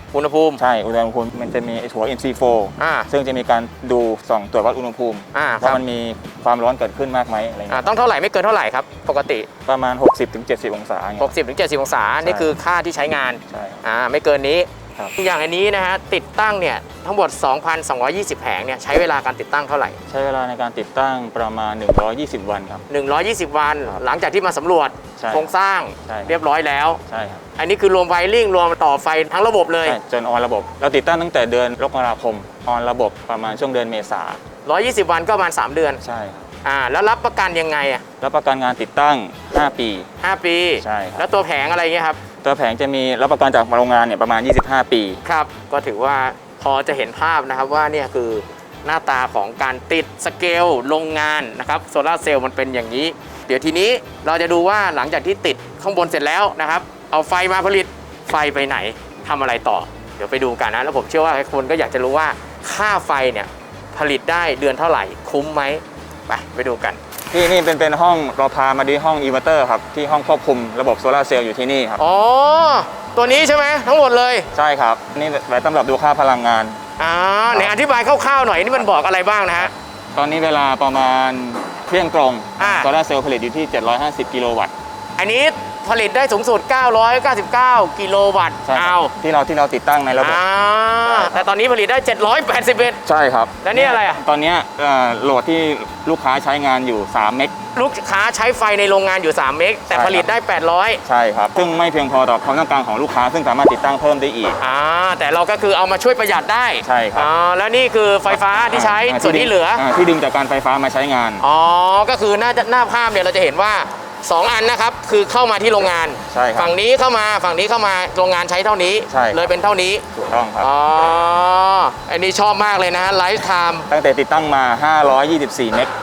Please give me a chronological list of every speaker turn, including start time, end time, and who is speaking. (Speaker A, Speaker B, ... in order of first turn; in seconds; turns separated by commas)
Speaker A: 0.1-0.6, Speaker B: 0.6-7.9, Speaker A: 2.8-3.1, Speaker A: 5.3-5.8, Speaker A: 7.7-9.5, Speaker B: 9.7-11.3, Speaker A: 11.2-20.0, Speaker B: 12.2-12.6, Speaker B: 13.5-13.8, Speaker B: 20.1-22.8, Speaker A: 22.9-27.0, Speaker B: 25.2-25.5, Speaker B: 26.1-26.3, Speaker B: 27.1-27.4, Speaker A: 27.6-30.0, Speaker B: 29.8-34.4, Speaker A: 34.6-36.0, Speaker B: 36.0-36.5, Speaker A: 36.6-38.0, Speaker B: 38.2-40.1, Speaker A: 40.2-42.2, Speaker B: 40.8-41.2, Speaker B: 42.4-45.2, Speaker A: 45.2-67.0, Speaker B: 67.3-72.0, Speaker A: 72.0-74.5, Speaker B: 74.5-76.8, Speaker A: 77.0-79.7, Speaker B: 77.5-77.8, Speaker B: 79.6-84.7, Speaker A: 82.6-82.9, Speaker A: 85.2-89.1, Speaker B: 88.7-90.4, Speaker A: 90.2-93.0, Speaker B: 91.0-91.4, Speaker B: 93.0-97.5, Speaker A: 93.6-94.2, Speaker A: 97.7-101.0, Speaker B: 99.9-100.3, Speaker B: 101.0-104.6, Speaker A: 104.6-109.8, Speaker B: 106.8-107.3, Speaker B: 108.7-111.4, Speaker A: 111.4-120.0, Speaker B: 116.3-116.7, Speaker B: 119.1-119.5, Speaker B: 120.1-120.7, Speaker A: 120.6-123.9, Speaker B: 123.9-125.9